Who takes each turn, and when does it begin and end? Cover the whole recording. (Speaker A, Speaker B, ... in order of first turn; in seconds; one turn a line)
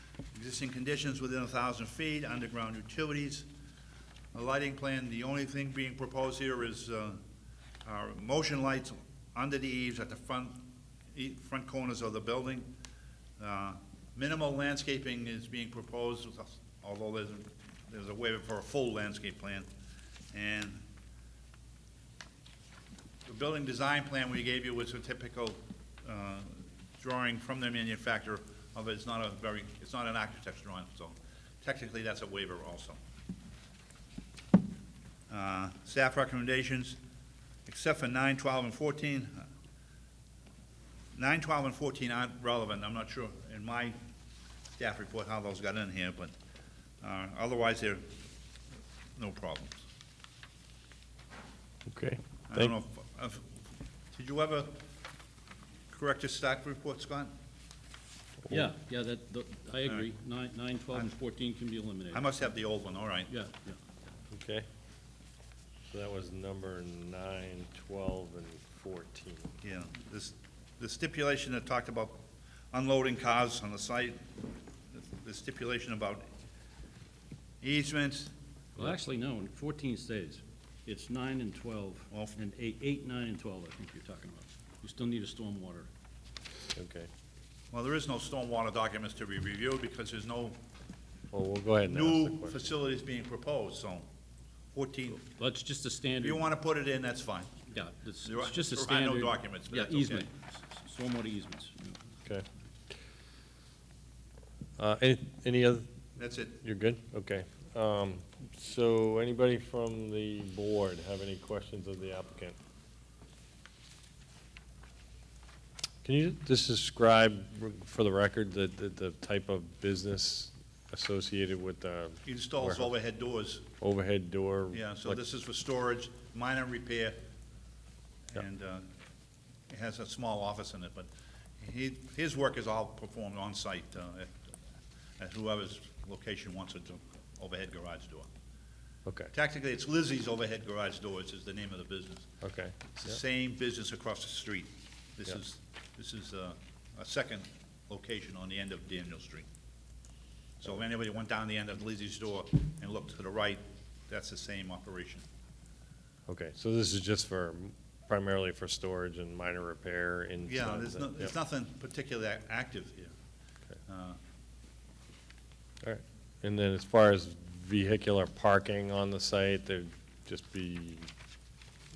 Speaker A: 0.3-3.5
Speaker A: 4.3-7.2
Speaker A: 7.8-10.6
Speaker A: 11.1-12.7
Speaker A: 13.4-19.7
Speaker A: 20.3-20.8
Speaker A: 23.3-33.0
Speaker A: 35.3-37.0
Speaker A: 37.7-39.5
Speaker A: 41.1-44.0
Speaker A: 44.7-46.3
Speaker A: 47.0-48.1
Speaker A: 49.2-49.8
Speaker B: 51.9-52.8
Speaker A: 52.5-53.6
Speaker A: 54.1-54.8
Speaker A: 55.9-57.3
Speaker C: 58.5-62.3
Speaker A: 62.1-63.3
Speaker C: 63.3-63.8
Speaker B: 64.3-64.7
Speaker B: 65.9-69.5
Speaker A: 69.6-72.2
Speaker A: 72.7-74.3
Speaker A: 74.9-76.2
Speaker A: 77.6-78.3
Speaker C: 78.8-85.9
Speaker A: 82.1-82.4
Speaker B: 86.8-87.1
Speaker A: 87.7-90.6
Speaker B: 91.3-92.7
Speaker A: 91.9-94.1
Speaker A: 94.7-95.2
Speaker C: 95.2-96.5
Speaker A: 96.2-97.6
Speaker C: 97.7-102.0
Speaker A: 98.2-100.3
Speaker B: 104.8-105.9
Speaker A: 106.2-106.6
Speaker B: 106.6-112.6
Speaker B: 116.0-122.9
Speaker A: 122.2-123.7
Speaker B: 123.8-125.2
Speaker A: 124.7-127.2
Speaker A: 128.3-128.9
Speaker A: 129.7-131.1
Speaker A: 131.6-134.4
Speaker A: 135.2-138.3
Speaker A: 139.3-142.3
Speaker B: 142.4-143.2
Speaker A: 142.9-149.5
Speaker A: 150.6-155.2
Speaker B: 156.3-161.3
Speaker A: 160.5-163.1
Speaker A: 163.9-164.2
Speaker B: 165.8-171.1